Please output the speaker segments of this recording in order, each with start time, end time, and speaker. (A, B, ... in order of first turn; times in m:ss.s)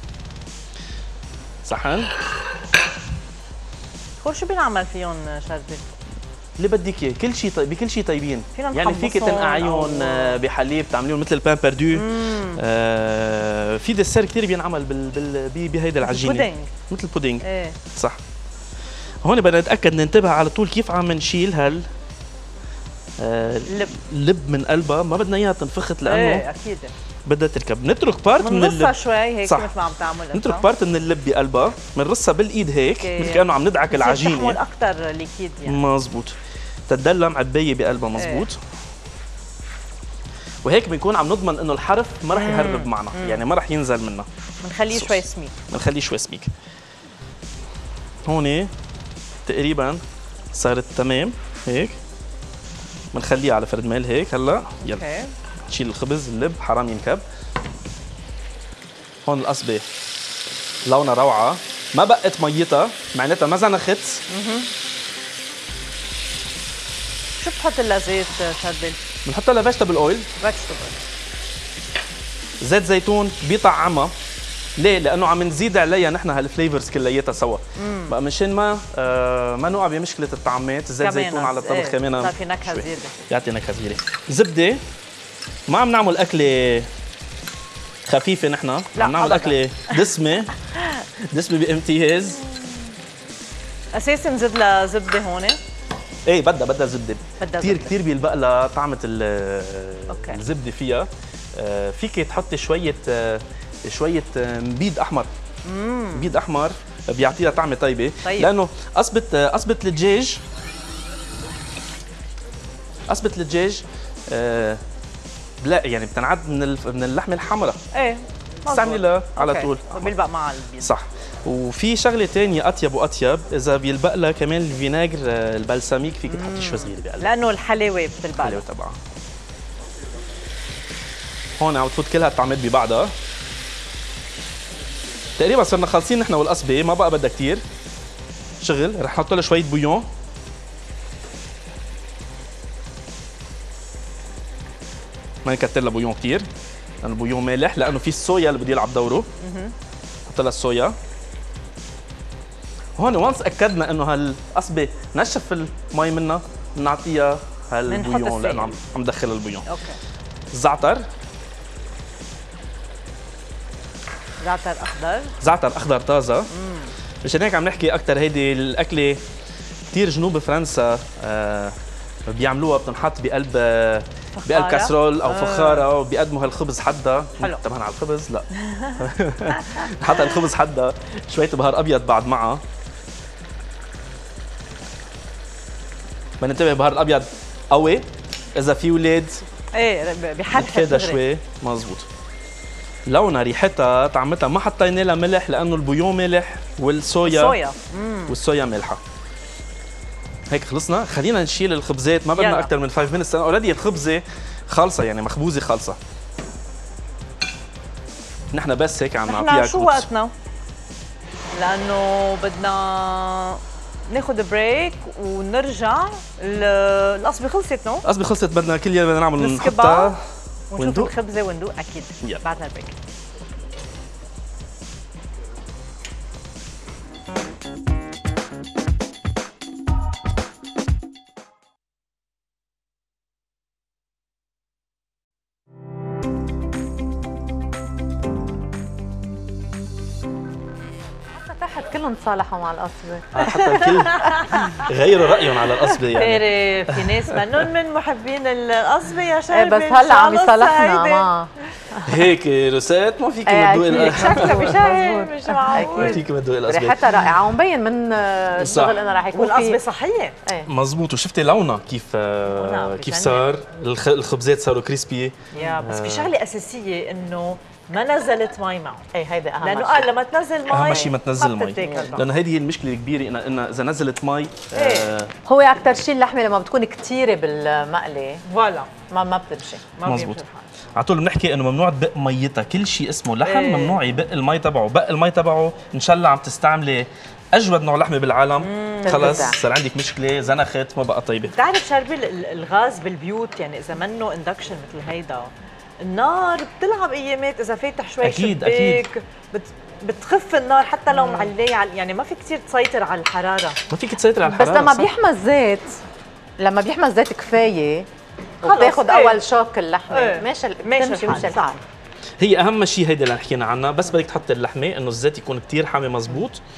0:01.6-0:02.1 A
0:04.2-0:05.8 B
0:06.6-0:18.2 A
0:08.5-0:10.4 B
0:11.9-0:12.6 B
0:16.0-0:16.7 B
0:17.4-0:17.8 B
0:19.2-0:21.8 A
0:23.2-0:26.4 A
0:23.7-0:23.9 B
0:26.0-0:26.9 B
0:27.2-0:29.7 A
0:28.4-0:30.6 B
0:30.3-0:34.6 A
0:33.0-0:35.8 B
0:35.6-0:36.3 A
0:36.9-0:38.6 A
0:38.2-0:38.5 B
0:40.6-0:44.3 A
0:42.3-0:43.4 B
0:44.6-0:45.5 B
0:44.9-0:46.5 A
0:48.2-0:48.7 A
0:49.4-0:50.0 A
0:50.5-0:51.9 A
0:53.1-0:55.0 A
0:54.8-0:55.3 B
0:55.7-0:57.2 A
0:59.2-0:59.8 A
1:00.8-1:04.2 A
1:04.3-1:04.7 B
1:07.4-1:09.0 B
1:09.2-1:10.3 A
1:10.4-1:11.0 B
1:12.6-1:14.1 A
1:14.8-1:24.8 A
1:17.8-1:18.1 B
1:21.0-1:23.1 B
1:25.7-1:26.9 A
1:28.0-1:30.6 A
1:29.0-1:29.9 B
1:31.2-1:32.4 A
1:32.4-1:32.9 B
1:33.9-1:35.6 B
1:36.2-1:45.3 A
1:37.4-1:38.0 B
1:40.1-1:40.4 B
1:45.6-1:46.3 B
1:46.1-1:50.4 A
1:48.2-1:48.5 B
1:53.1-1:54.8 A
1:55.6-1:57.8 A
1:57.9-2:00.9 B
1:58.7-2:00.1 A
2:00.8-2:07.3 A
2:06.3-2:08.6 B
2:08.4-2:09.0 A
2:11.6-2:13.1 A
2:15.4-2:17.6 A
2:18.6-2:20.1 A
2:25.4-2:26.5 A
2:27.0-2:29.3 A
2:29.4-2:29.7 B
2:30.3-2:31.0 A
2:33.0-2:39.7 A
2:37.9-2:38.7 B
2:39.6-2:40.0 B
2:40.5-2:41.0 A
2:44.4-2:45.3 B
2:45.4-2:46.5 A
2:46.5-2:46.9 B
2:47.2-2:49.2 A
2:49.9-2:51.7 A
2:52.3-3:02.6 A
2:54.4-2:55.8 B
2:58.6-2:59.0 B
2:59.6-3:00.1 B
3:06.4-3:09.4 A
3:09.7-3:11.2 B
3:10.5-3:12.0 A
3:13.1-3:17.6 A
3:17.2-3:18.3 B
3:18.3-3:19.0 A
3:20.5-3:26.0 A
3:22.4-3:22.7 B
3:28.5-3:30.1 A
3:29.3-3:30.3 B
3:31.5-3:38.0 B
3:38.0-3:40.2 A
3:39.4-3:40.1 B
3:40.7-3:42.9 B
3:40.8-3:41.1 A
4:01.3-4:03.6 C
4:03.3-4:07.6 A
4:03.4-4:04.9 B
4:06.1-4:11.8 B
4:09.5-4:12.2 C
4:12.0-4:14.8 A
4:13.4-4:19.8 C
4:13.9-4:16.2 B
4:15.8-4:17.1 A
4:18.6-4:19.0 A
4:19.3-4:20.3 B
4:20.4-4:20.7 C
4:20.6-4:26.3 A
4:22.5-4:23.4 B
4:25.5-4:29.0 B
4:29.1-4:30.1 C
4:29.6-4:32.2 B
4:30.7-4:35.3 A
4:31.8-4:32.2 C
4:34.7-4:35.1 B
4:35.4-4:38.4 C
4:38.4-4:38.9 B
4:39.1-4:39.9 C
4:40.0-4:40.6 B
4:40.0-4:40.4 A
4:41.0-4:51.5 A
4:43.4-4:44.0 B
4:48.6-4:49.5 B
4:49.0-4:49.6 C
4:51.5-5:03.8 B
4:58.2-4:59.0 A
5:01.1-5:01.5 C
5:03.9-5:05.1 A
5:04.4-5:06.0 C
5:06.6-5:08.1 C
5:08.6-5:11.8 C
5:08.6-5:09.4 B
5:10.1-5:11.8 B
5:12.4-5:16.6 A